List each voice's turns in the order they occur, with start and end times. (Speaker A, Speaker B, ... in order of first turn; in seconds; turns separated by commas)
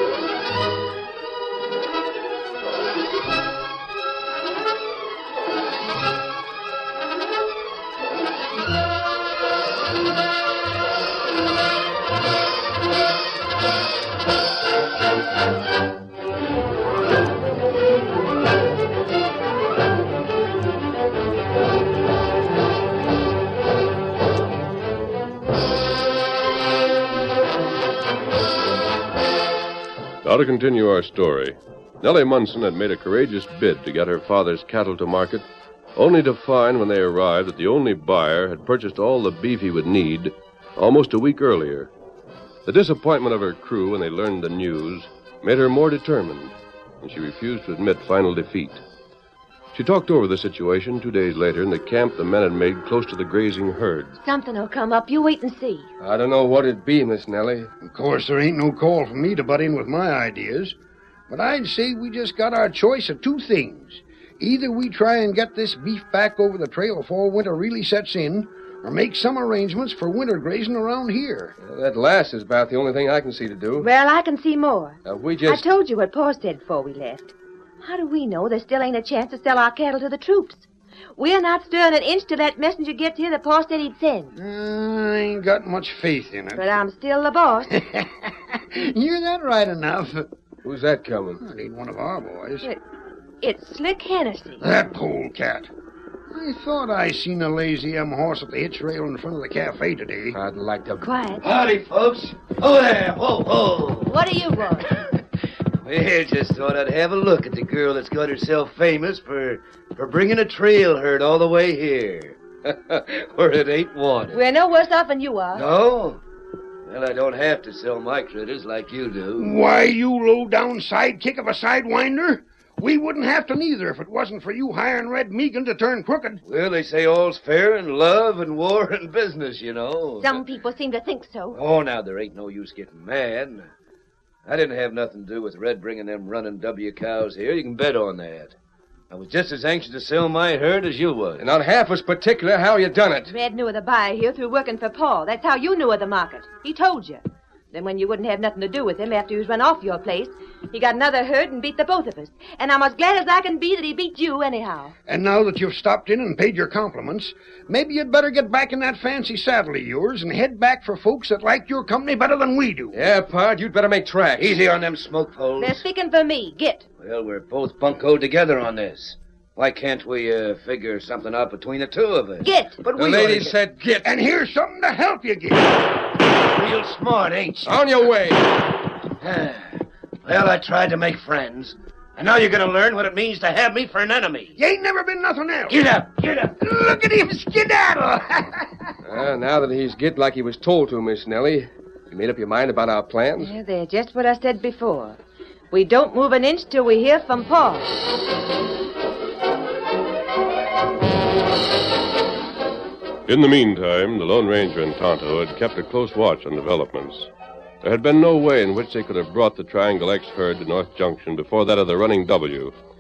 Speaker A: 30.2-41.9, Speaker A: 42.6-48.8, Speaker A: 49.7-54.1, Speaker B: 54.2-55.9, Speaker C: 56.0-57.7, Speaker D: 57.8-60.8, Speaker D: 61.3-71.5, Speaker C: 71.6-73.9, Speaker B: 73.8-80.7, Speaker C: 75.0-75.7, Speaker B: 81.2-84.3, Speaker D: 84.4-86.6, Speaker B: 86.5-87.7, Speaker D: 87.8-90.3, Speaker C: 90.6-91.4, Speaker D: 91.4-92.7, Speaker B: 93.4-94.6, Speaker D: 94.6-95.7, Speaker D: 96.3-100.4, Speaker C: 100.3-101.0, Speaker B: 101.0-101.4, Speaker E: 101.4-104.2, Speaker B: 104.1-105.1, Speaker E: 105.8-114.4, Speaker B: 114.3-115.7, Speaker E: 115.5-116.2, Speaker E: 116.9-119.6, Speaker D: 119.4-126.4, Speaker E: 126.5-130.4, Speaker B: 130.2-131.6, Speaker E: 131.5-133.7, Speaker E: 134.5-138.6, Speaker E: 139.1-141.4, Speaker C: 141.4-143.3, Speaker B: 143.3-154.9, Speaker D: 155.1-163.1, Speaker C: 162.9-164.6, Speaker E: 164.4-165.8, Speaker B: 165.6-166.8, Speaker E: 167.0-173.5, Speaker B: 172.4-172.8, Speaker C: 173.0-174.1, Speaker D: 174.0-175.8, Speaker E: 176.4-177.8, Speaker C: 177.7-178.5, Speaker E: 179.2-184.6, Speaker D: 184.6-185.8, Speaker E: 185.7-186.6, Speaker D: 186.6-188.7, Speaker C: 189.1-193.5, Speaker B: 193.4-195.2, Speaker B: 195.7-198.0, Speaker A: 203.3-207.3, Speaker A: 207.8-212.7